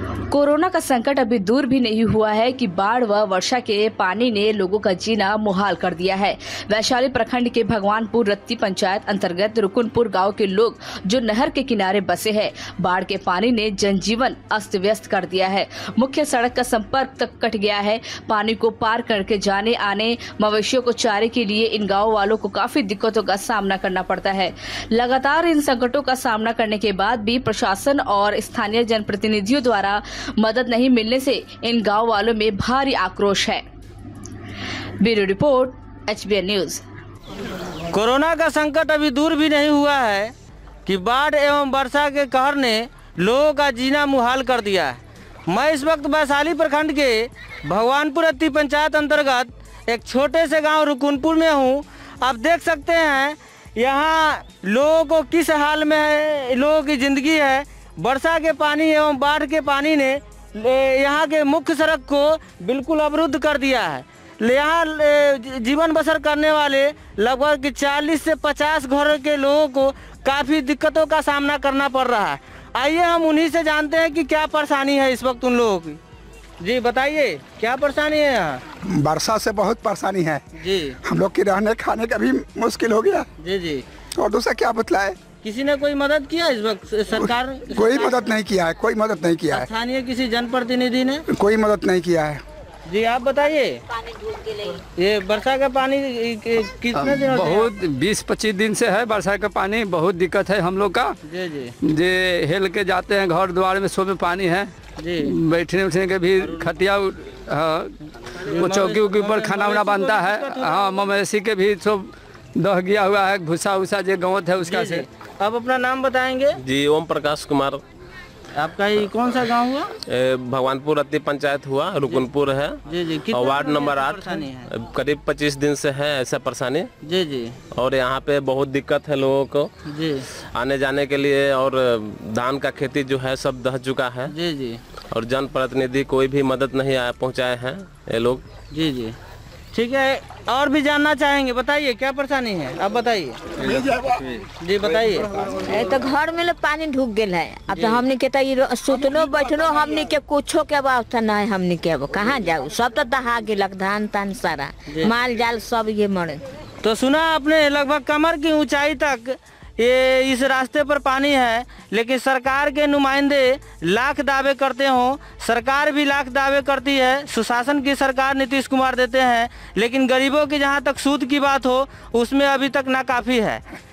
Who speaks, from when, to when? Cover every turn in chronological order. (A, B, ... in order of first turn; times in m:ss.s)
0:00.3-0:33.6 A
0:35.0-0:36.8 A
0:37.9-0:40.3 B
0:40.9-1:16.0 B
1:16.6-1:18.6 B
1:18.8-1:20.4 C
1:20.6-1:21.0 B
1:21.0-1:23.3 C
1:23.4-1:23.8 B
1:24.2-1:25.2 C
1:25.4-1:28.2 B
1:27.2-1:29.7 C
1:29.5-1:31.2 B
1:31.3-1:32.4 C
1:32.9-1:33.8 B
1:34.2-1:34.6 D
1:35.0-1:37.7 B
1:36.9-1:41.2 E
1:41.2-1:41.7 B
1:41.8-1:47.9 E
1:45.0-1:45.4 B
1:46.4-1:46.7 B
1:48.4-1:51.1 B
1:48.5-1:55.1 E
1:54.6-1:56.6 B
1:56.6-1:57.8 F
1:58.6-1:59.9 B
2:00.0-2:06.9 F
2:02.8-2:04.7 B
2:07.0-2:07.6 B
2:07.7-2:09.7 F
2:09.9-2:10.3 B
2:10.5-2:14.3 F
2:14.3-2:14.8 B
2:15.1-2:18.4 F
2:18.7-2:19.2 B
2:19.7-2:23.4 B
2:24.6-2:25.3 B
2:25.7-2:36.4 D
2:27.7-2:28.1 B
2:34.9-2:35.1 B
2:36.8-2:53.6 B